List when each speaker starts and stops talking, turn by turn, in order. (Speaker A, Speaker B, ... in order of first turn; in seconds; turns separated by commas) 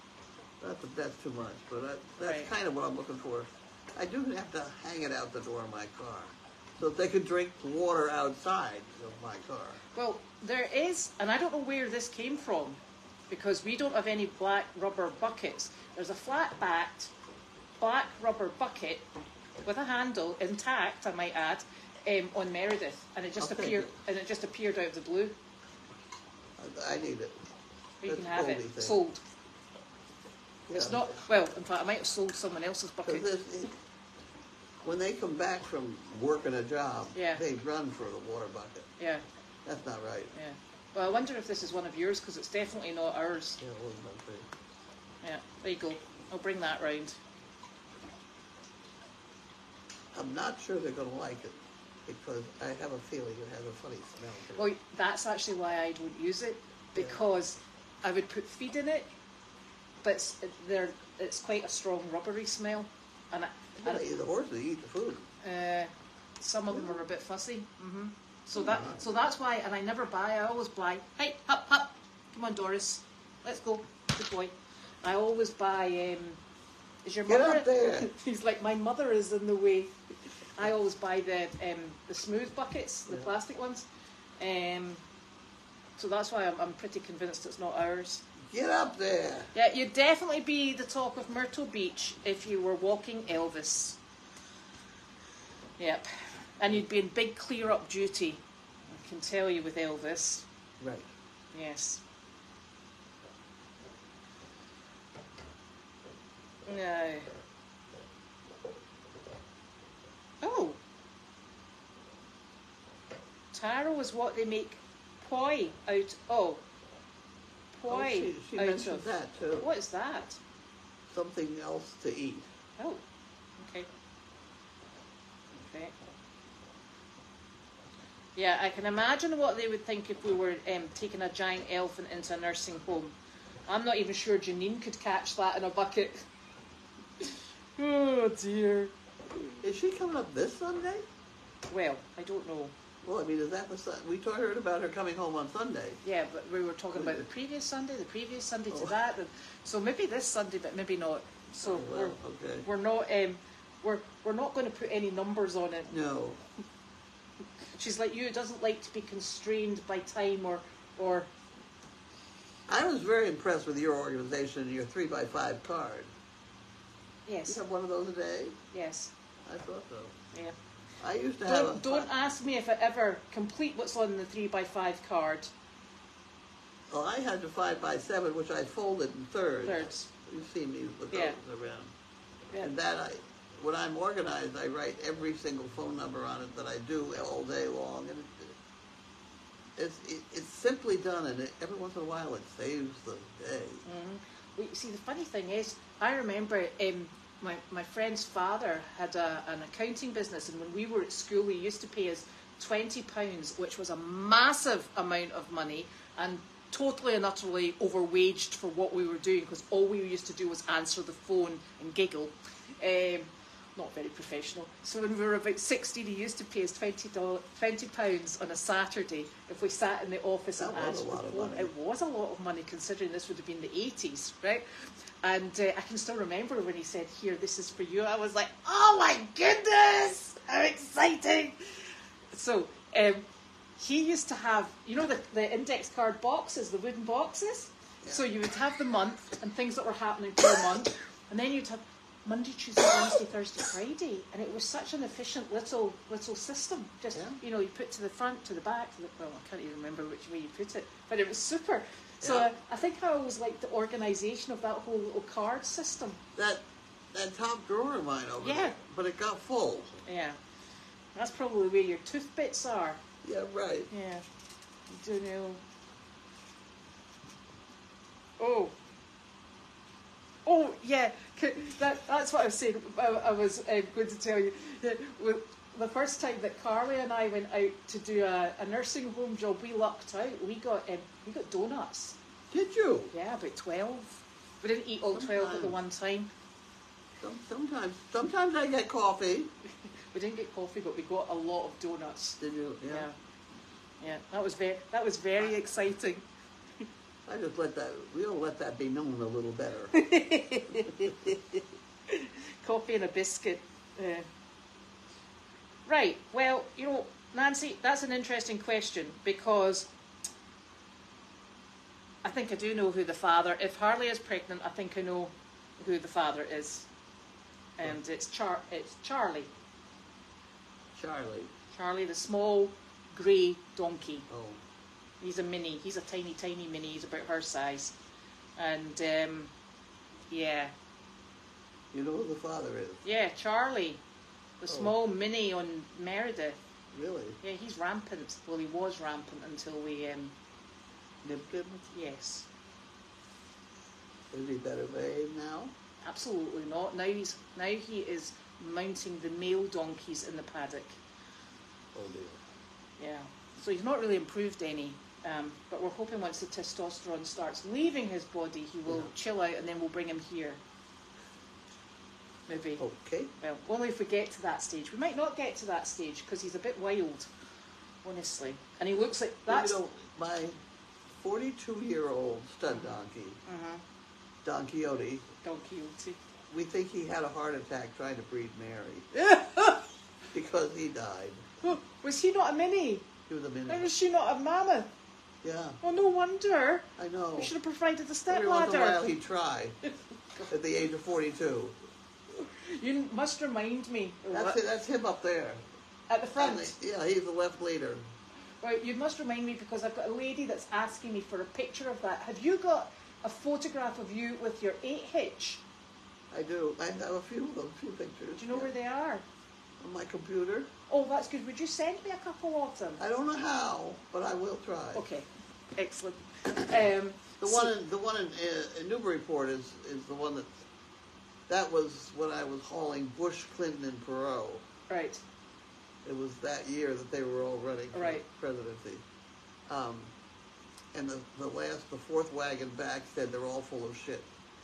Speaker A: 0.6-9.8, Speaker B: 2.2-2.5, Speaker B: 9.9-17.1, Speaker B: 17.8-19.1, Speaker B: 19.6-25.4, Speaker A: 23.4-23.9, Speaker A: 26.6-27.4, Speaker B: 28.0-29.2, Speaker A: 28.1-29.0, Speaker A: 30.7-31.2, Speaker B: 30.8-33.3, Speaker A: 33.0-33.7, Speaker A: 34.8-38.9, Speaker B: 37.1-37.4, Speaker B: 39.0-39.2, Speaker A: 39.7-40.3, Speaker B: 40.3-43.6, Speaker A: 43.6-44.5, Speaker B: 45.2-47.2, Speaker A: 50.1-54.7, Speaker B: 54.6-59.1, Speaker B: 60.0-64.0, Speaker A: 63.8-65.3, Speaker B: 65.4-76.4, Speaker A: 66.7-67.0, Speaker A: 68.5-69.0, Speaker B: 77.0-80.0, Speaker A: 77.3-78.1, Speaker B: 80.6-83.9, Speaker B: 84.4-85.0, Speaker B: 86.0-88.2, Speaker A: 88.5-89.5, Speaker B: 89.5-94.0, Speaker B: 95.8-100.5, Speaker A: 100.8-101.1, Speaker B: 101.5-102.0, Speaker B: 106.7-107.3, Speaker B: 110.4-110.8, Speaker B: 113.5-116.6, Speaker B: 117.7-120.4, Speaker A: 117.9-119.7, Speaker A: 121.1-122.5, Speaker B: 122.8-123.0, Speaker B: 123.6-123.9, Speaker B: 125.6-126.0, Speaker B: 128.3-133.2, Speaker B: 133.7-136.3, Speaker B: 137.2-139.5, Speaker A: 139.6-141.1, Speaker B: 141.7-142.7, Speaker A: 143.0-146.0, Speaker B: 146.0-155.9, Speaker A: 146.9-147.3, Speaker A: 151.6-152.7, Speaker A: 155.9-156.4, Speaker B: 157.7-161.3, Speaker A: 162.7-166.1, Speaker B: 167.3-167.6, Speaker A: 167.5-168.6, Speaker B: 168.7-169.1, Speaker A: 169.5-170.2, Speaker A: 171.0-172.1, Speaker B: 171.5-175.5, Speaker A: 176.9-181.9, Speaker B: 179.7-180.1, Speaker B: 181.1-181.4, Speaker A: 182.6-188.6, Speaker A: 189.8-193.8, Speaker B: 193.9-233.2, Speaker A: 220.6-221.7, Speaker B: 233.8-256.2, Speaker A: 247.1-247.4, Speaker A: 252.2-252.5, Speaker A: 256.4-256.6, Speaker A: 257.1-260.0, Speaker B: 258.4-258.8, Speaker B: 260.1-260.4, Speaker B: 261.1-263.0, Speaker A: 263.2-263.9, Speaker B: 263.9-264.2, Speaker B: 264.9-265.6, Speaker B: 268.4-268.8, Speaker B: 270.4-282.2, Speaker A: 282.5-283.1, Speaker B: 283.1-286.3, Speaker A: 285.1-285.8, Speaker A: 287.2-289.5, Speaker B: 290.1-293.1, Speaker A: 292.4-293.1, Speaker B: 294.0-296.2, Speaker A: 297.3-300.0, Speaker B: 299.9-304.3, Speaker B: 305.9-309.9, Speaker B: 312.2-316.9, Speaker B: 317.8-319.5, Speaker A: 321.0-321.5, Speaker B: 321.7-324.3, Speaker A: 324.3-324.6, Speaker B: 325.2-328.0, Speaker B: 328.6-329.5, Speaker B: 330.3-330.7, Speaker A: 331.9-333.0, Speaker B: 333.0-334.0, Speaker B: 334.6-336.6, Speaker A: 334.7-334.9, Speaker A: 336.9-337.4, Speaker B: 337.4-340.4, Speaker A: 341.2-341.8, Speaker B: 341.9-342.5, Speaker A: 344.3-345.7, Speaker B: 346.0-351.0, Speaker A: 351.9-352.4, Speaker B: 353.0-360.6, Speaker A: 358.9-359.1, Speaker B: 362.5-362.8, Speaker A: 362.8-363.3, Speaker B: 363.4-367.3, Speaker B: 368.0-369.8, Speaker A: 369.5-370.6, Speaker A: 371.2-373.4, Speaker B: 372.7-373.8, Speaker A: 374.4-375.2, Speaker B: 375.4-376.2, Speaker A: 376.5-379.1, Speaker B: 379.1-379.9, Speaker A: 380.3-381.6, Speaker B: 381.6-383.1, Speaker A: 383.3-383.9, Speaker B: 383.7-384.9, Speaker A: 385.4-385.8, Speaker B: 385.8-389.1, Speaker A: 387.0-387.5, Speaker A: 388.3-389.8, Speaker A: 390.5-391.8, Speaker B: 392.4-394.6, Speaker A: 394.3-395.6, Speaker B: 396.1-396.8, Speaker A: 396.4-398.1, Speaker B: 398.6-405.6, Speaker A: 406.3-408.7, Speaker B: 408.4-409.3, Speaker A: 409.8-410.7, Speaker B: 410.9-413.0, Speaker A: 413.0-415.0, Speaker B: 414.9-417.7, Speaker A: 417.4-420.6, Speaker A: 421.5-424.6, Speaker B: 424.9-425.2, Speaker A: 426.1-429.0, Speaker B: 427.9-428.2, Speaker A: 429.7-430.1, Speaker A: 430.9-434.3